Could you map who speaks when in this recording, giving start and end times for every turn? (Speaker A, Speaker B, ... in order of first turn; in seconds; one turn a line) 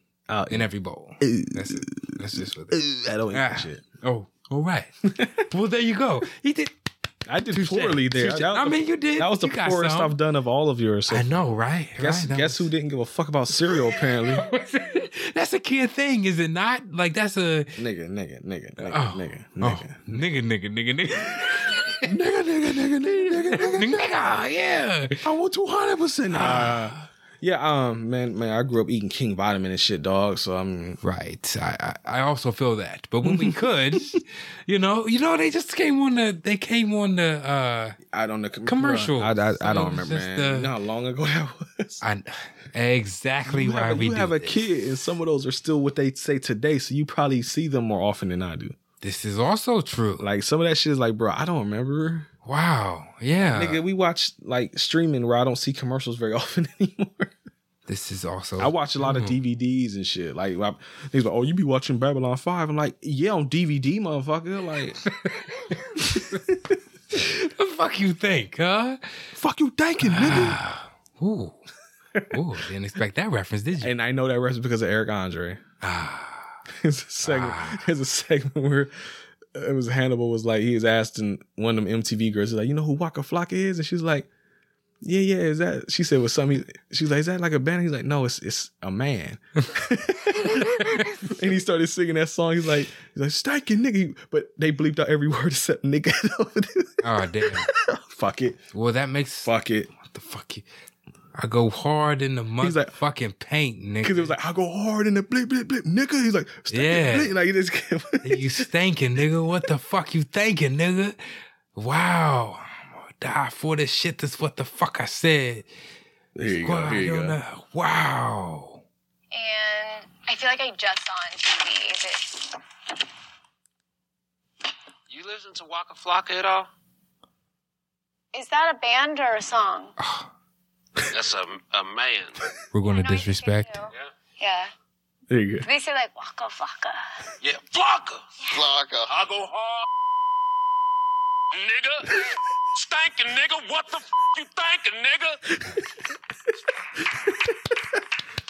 Speaker A: 0.3-0.7
Speaker B: 0.5-6.7
Speaker A: 1.2-3.8
Speaker A: 5.1-5.4
Speaker A: 7.3-11.4
Speaker B: 7.5-10.2
Speaker B: 11.1-12.7
Speaker A: 12.0-14.5
Speaker B: 13.7-17.8
Speaker A: 17.8-20.1
Speaker B: 18.8-25.2
Speaker A: 22.0-24.2
Speaker A: 25.2-31.0
Speaker B: 26.3-27.1
Speaker B: 31.0-38.0
Speaker A: 33.2-34.2
Speaker A: 38.1-42.0
Speaker B: 38.6-40.7
Speaker B: 42.0-44.6
Speaker A: 43.5-48.8
Speaker B: 49.0-50.3
Speaker A: 50.2-52.3
Speaker B: 52.4-53.8
Speaker A: 53.4-57.3
Speaker B: 57.9-59.4
Speaker A: 58.6-65.0
Speaker B: 65.0-66.4
Speaker A: 66.0-66.6
Speaker B: 67.1-69.0
Speaker A: 69.3-70.6
Speaker B: 70.0-71.6
Speaker B: 72.3-73.9
Speaker A: 73.8-75.6
Speaker B: 75.8-76.5
Speaker A: 76.7-78.9
Speaker B: 77.2-77.8
Speaker A: 79.5-84.3
Speaker A: 85.0-98.6
Speaker B: 90.4-91.3
Speaker B: 97.0-97.7
Speaker B: 98.7-100.7
Speaker A: 99.4-99.9
Speaker B: 101.3-104.3
Speaker A: 102.6-102.9
Speaker A: 104.0-108.7
Speaker B: 106.7-107.3
Speaker B: 108.2-111.2
Speaker B: 111.7-115.7
Speaker A: 116.3-117.4
Speaker B: 116.4-118.8
Speaker C: 119.3-122.6
Speaker D: 125.1-126.7
Speaker C: 128.3-129.9
Speaker B: 130.0-130.3
Speaker D: 131.1-132.4
Speaker B: 132.7-133.8
Speaker C: 132.8-134.7
Speaker A: 135.3-135.7
Speaker C: 135.6-137.0
Speaker D: 137.4-139.8
Speaker C: 138.4-138.7
Speaker D: 141.5-142.2
Speaker D: 142.7-145.4